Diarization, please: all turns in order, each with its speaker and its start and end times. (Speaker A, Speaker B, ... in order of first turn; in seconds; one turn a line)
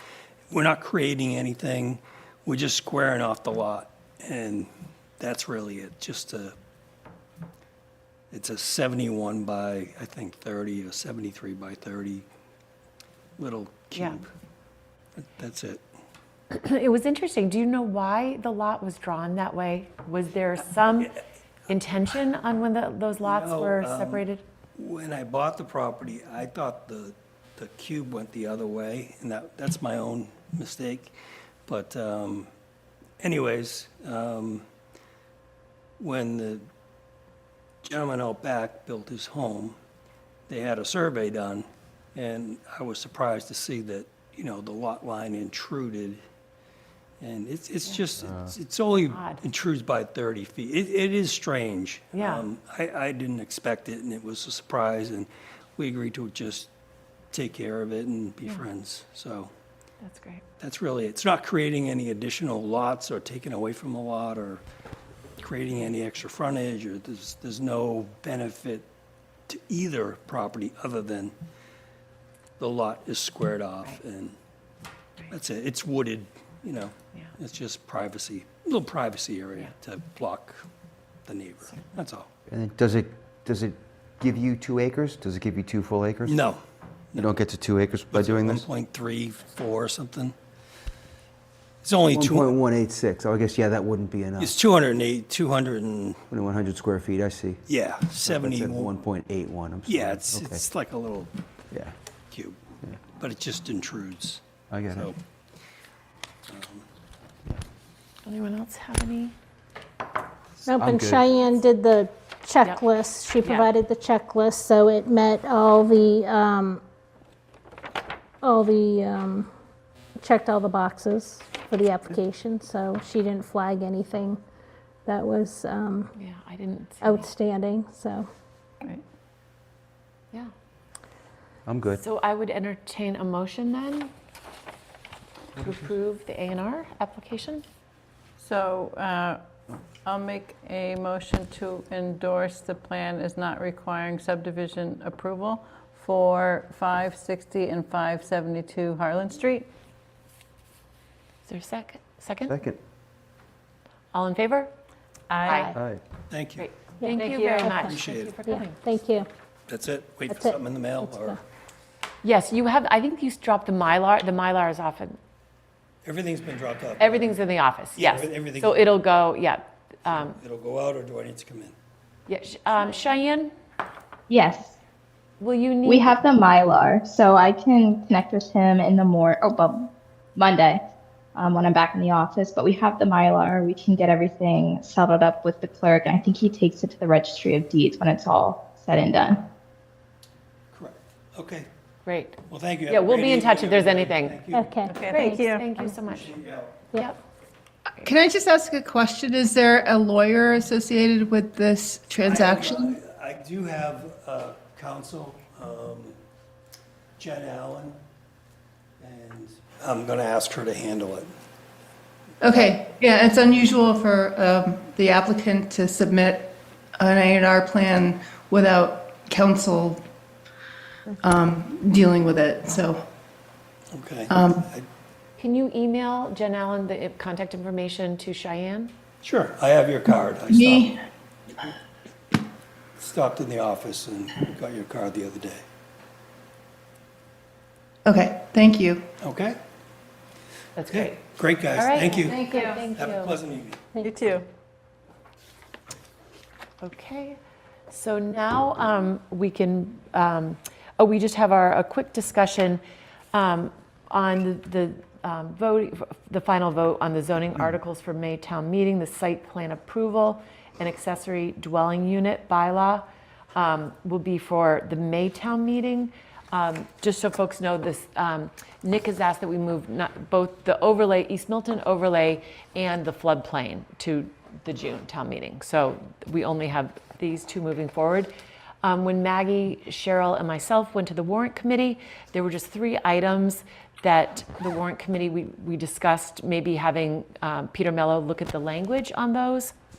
Speaker A: 0.5-6.5
Speaker A: 8.3-12.2
Speaker A: 13.4-14.3
Speaker A: 15.2-15.8
Speaker B: 16.5-21.2
Speaker B: 21.7-24.4
Speaker A: 23.2-24.2
Speaker A: 24.7-31.1
Speaker A: 31.6-32.5
Speaker A: 33.2-34.6
Speaker A: 36.0-36.6
Speaker A: 37.8-39.8
Speaker A: 40.5-46.2
Speaker A: 47.2-56.7
Speaker C: 48.2-48.5
Speaker B: 49.1-49.4
Speaker B: 52.1-52.5
Speaker A: 57.3-59.5
Speaker B: 60.0-60.4
Speaker A: 60.6-64.6
Speaker A: 65.4-68.8
Speaker A: 69.5-71.3
Speaker A: 72.6-74.3
Speaker A: 75.3-80.6
Speaker A: 81.2-82.3
Speaker C: 82.5-86.4
Speaker A: 86.2-86.6
Speaker C: 87.1-88.7
Speaker A: 88.1-90.3
Speaker A: 91.8-92.5
Speaker C: 92.1-94.5
Speaker A: 94.4-96.2
Speaker C: 96.3-97.6
Speaker A: 97.7-98.9
Speaker C: 98.2-100.7
Speaker A: 99.8-101.3
Speaker A: 102.3-105.2
Speaker C: 104.7-105.1
Speaker A: 106.5-106.8
Speaker B: 108.2-109.3
Speaker D: 110.7-116.8
Speaker C: 110.8-111.3
Speaker B: 112.6-113.7
Speaker D: 118.4-119.5
Speaker D: 120.2-124.3
Speaker D: 125.1-126.1
Speaker B: 126.2-127.3
Speaker D: 127.0-128.2
Speaker C: 131.7-132.0
Speaker B: 131.9-134.1
Speaker B: 135.6-137.6
Speaker E: 138.4-139.4
Speaker E: 140.0-149.7
Speaker B: 151.5-152.5
Speaker C: 152.5-152.8
Speaker B: 154.1-154.7
Speaker E: 155.3-155.8
Speaker B: 155.4-155.8
Speaker C: 155.7-156.0
Speaker A: 156.3-156.7
Speaker B: 156.6-158.8
Speaker E: 157.1-157.8
Speaker A: 157.8-158.4
Speaker D: 158.8-159.2
Speaker A: 159.7-161.4
Speaker B: 162.2-165.2
Speaker A: 166.0-167.4
Speaker B: 167.0-170.4
Speaker A: 167.9-168.9
Speaker A: 170.1-171.7
Speaker B: 172.3-173.5
Speaker F: 174.3-174.8
Speaker B: 175.4-176.1
Speaker F: 175.8-180.8
Speaker F: 181.3-189.4
Speaker A: 190.7-191.7
Speaker B: 192.1-192.4
Speaker A: 192.5-195.0
Speaker B: 192.9-194.4
Speaker D: 194.5-194.9
Speaker E: 194.8-195.9
Speaker B: 195.0-196.3
Speaker A: 196.1-196.8
Speaker B: 196.9-197.2
Speaker G: 198.0-203.0
Speaker A: 202.2-206.2
Speaker A: 207.2-208.0
Speaker A: 209.0-211.3
Speaker G: 212.4-220.0
Speaker G: 221.2-223.0
Speaker A: 223.9-224.9
Speaker G: 224.3-224.7
Speaker B: 225.4-228.9
Speaker A: 229.2-230.9
Speaker G: 230.4-231.0
Speaker A: 233.0-235.6
Speaker G: 238.1-239.0
Speaker A: 239.2-239.6
Speaker B: 240.8-241.2
Speaker A: 240.9-243.8
Speaker B: 241.7-243.4
Speaker E: 242.3-242.9
Speaker E: 244.0-244.4
Speaker B: 246.8-247.4
Speaker B: 247.9-252.8
Speaker B: 253.3-278.3
Speaker B: 278.8-289.7